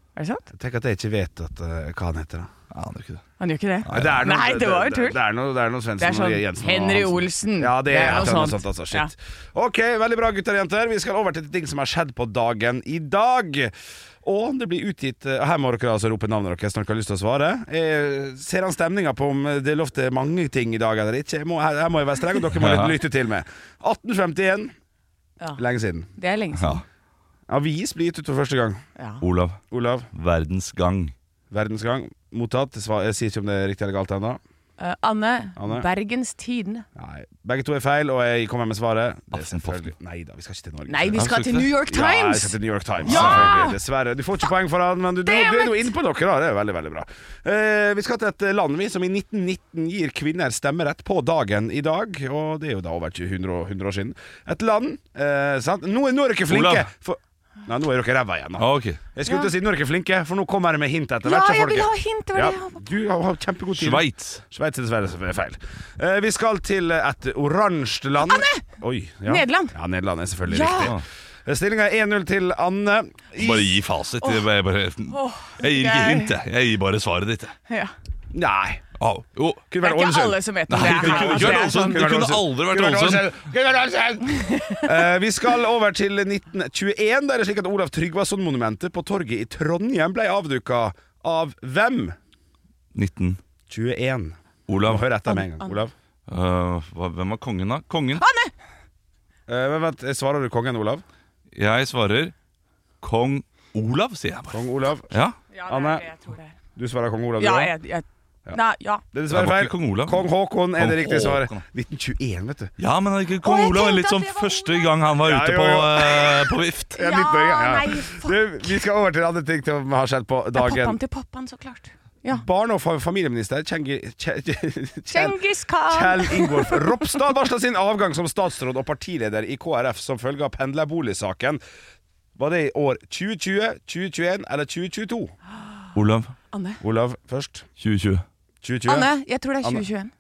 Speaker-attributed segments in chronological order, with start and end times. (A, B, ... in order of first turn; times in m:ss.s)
0:00.2-0:00.5 A
0:00.5-0:02.5 B
0:02.7-0:03.2 C
0:03.4-0:05.2 A
0:03.8-0:04.2 C
0:03.9-0:24.7 B
0:06.0-0:09.1 A
0:22.6-0:23.0 C
0:25.6-0:26.1 B
0:26.2-0:26.8 A
0:26.5-0:26.8 C
0:27.5-0:28.8 B
0:29.0-0:29.2 A
0:29.2-0:29.6 C
0:29.7-0:30.1 B
0:30.1-0:31.1 C
0:31.5-0:34.4 B
0:34.8-0:36.9 A
0:35.6-0:35.9 B
0:37.0-1:13.8 B
0:39.3-0:39.9 C
0:40.9-0:43.8 A
0:41.1-0:41.7 C
0:43.0-0:43.6 C
0:45.2-0:45.9 A
0:56.5-0:56.9 C
0:58.6-0:59.0 C
0:59.3-0:59.5 A
1:01.2-1:02.8 A
1:03.7-1:04.4 C
1:08.2-1:08.6 A
1:09.3-1:09.8 A
1:10.5-1:10.9 A
1:10.7-1:11.0 C
1:13.4-1:17.5 C
1:14.2-1:14.5 A
1:15.1-1:16.4 A
1:18.3-1:18.8 B
1:19.0-1:19.6 C
1:19.7-1:32.2 B
1:19.8-1:22.1 A
1:20.7-1:23.4 C
1:24.3-1:24.9 A
1:32.9-1:33.4 C
1:33.7-1:35.9 B
1:34.7-1:35.1 C
1:35.3-1:35.8 A
1:36.3-1:38.2 C
1:38.2-1:38.5 A
1:39.5-1:41.0 B
1:41.5-1:42.3 C
1:43.0-1:45.4 C
1:44.5-1:45.1 B
1:45.5-1:46.6 A
1:45.7-1:46.0 B
1:46.8-1:47.7 B
1:47.4-1:49.0 A
1:49.1-1:52.7 B
1:49.3-1:51.6 C
1:52.8-1:57.0 C
1:53.4-1:54.9 A
1:55.2-2:01.0 B
1:57.0-1:58.8 A
2:00.6-2:02.4 A
2:02.3-2:11.6 B
2:05.1-2:07.0 A
2:12.4-2:15.3 B
2:15.9-2:16.3 C
2:16.5-2:16.8 A
2:16.8-2:17.7 B
2:17.8-2:18.2 C
2:18.6-2:19.9 B
2:18.9-2:20.1 A